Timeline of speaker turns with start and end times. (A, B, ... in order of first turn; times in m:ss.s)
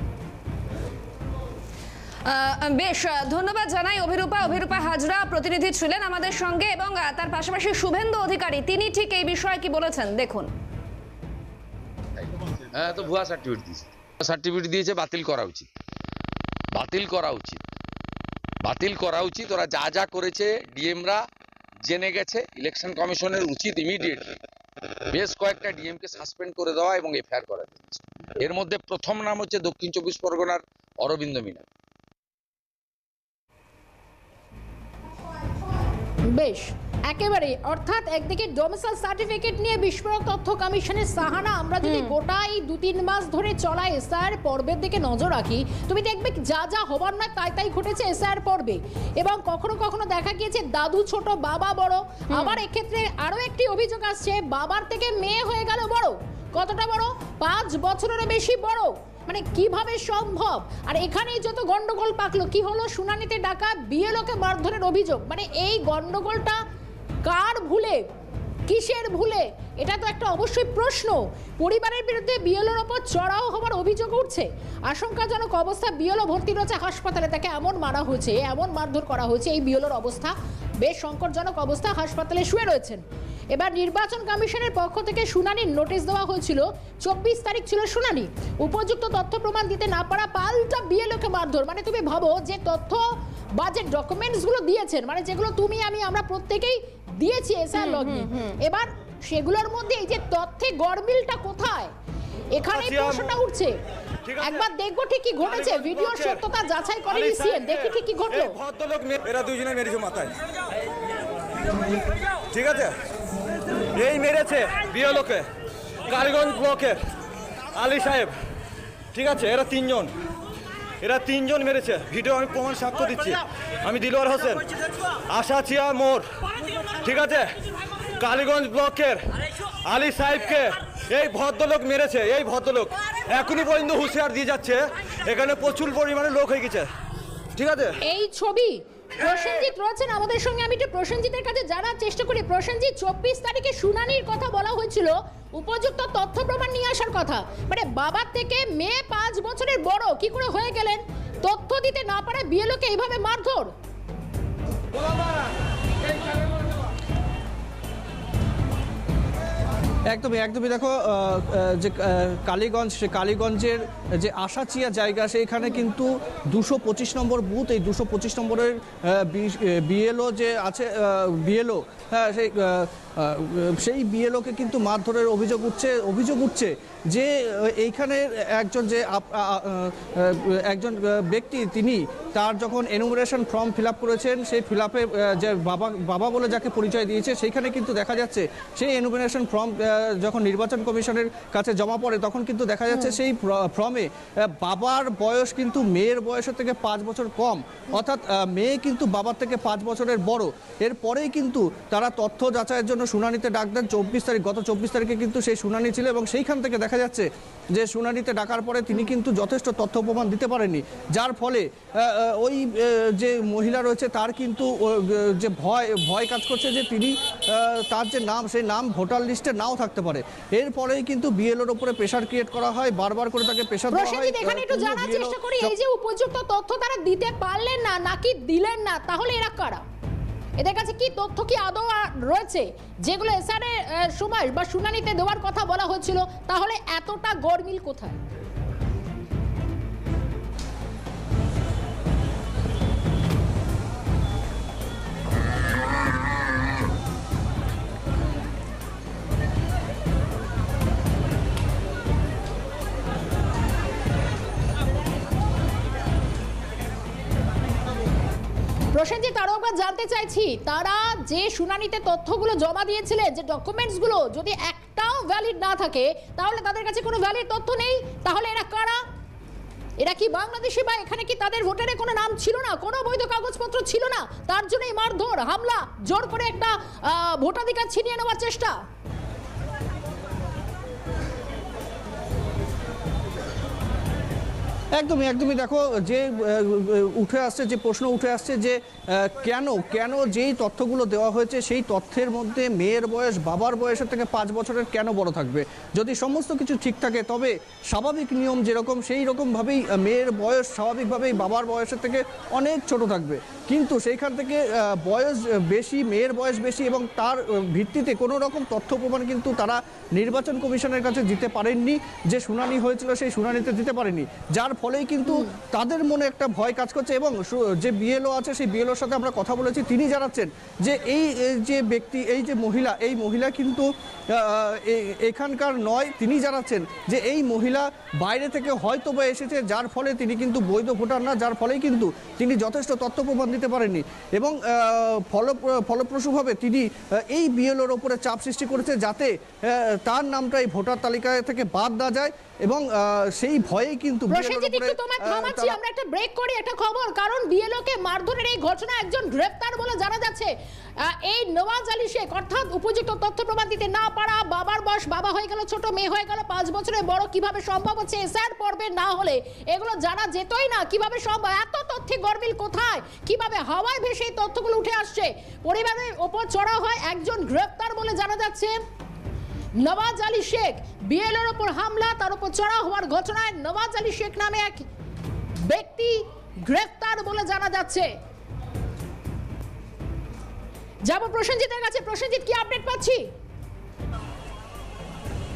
0:02.2-0:10.5 A
0:12.2-0:15.7 B
0:16.8-0:17.6 B
0:18.6-0:21.2 B
0:21.8-0:24.4 B
0:25.1-0:31.6 B
0:36.3-1:06.6 C
0:41.8-0:42.1 A
0:52.3-0:52.6 A
1:07.2-1:08.0 C
1:08.7-1:33.0 C
1:33.6-1:41.9 C
1:37.8-1:38.6 A
1:42.6-1:43.7 C
1:42.7-1:43.4 D
1:44.3-1:44.7 D
1:44.4-1:48.6 C
1:45.4-1:46.4 D
1:47.1-1:50.3 D
1:52.5-1:52.9 D
1:54.0-1:55.5 D
1:56.1-1:57.0 D
1:57.8-1:58.3 D
1:59.1-2:00.1 D
2:01.0-2:04.6 D
2:05.3-2:06.2 D
2:07.0-2:07.5 D
2:08.2-2:09.2 D
2:09.9-2:16.9 D
2:17.6-2:18.0 D
2:18.0-2:33.7 C
2:40.1-3:45.7 E
3:12.9-3:13.2 C
3:43.9-3:49.8 C
3:50.6-3:58.2 C
4:18.9-4:29.0 C
4:30.0-4:38.8 C
4:45.0-5:45.8 E
5:15.3-5:15.6 C
5:44.3-5:50.5 C
5:51.1-6:08.8 C
6:09.8-6:14.9 C
6:15.7-6:18.1 C
6:21.1-6:23.3 C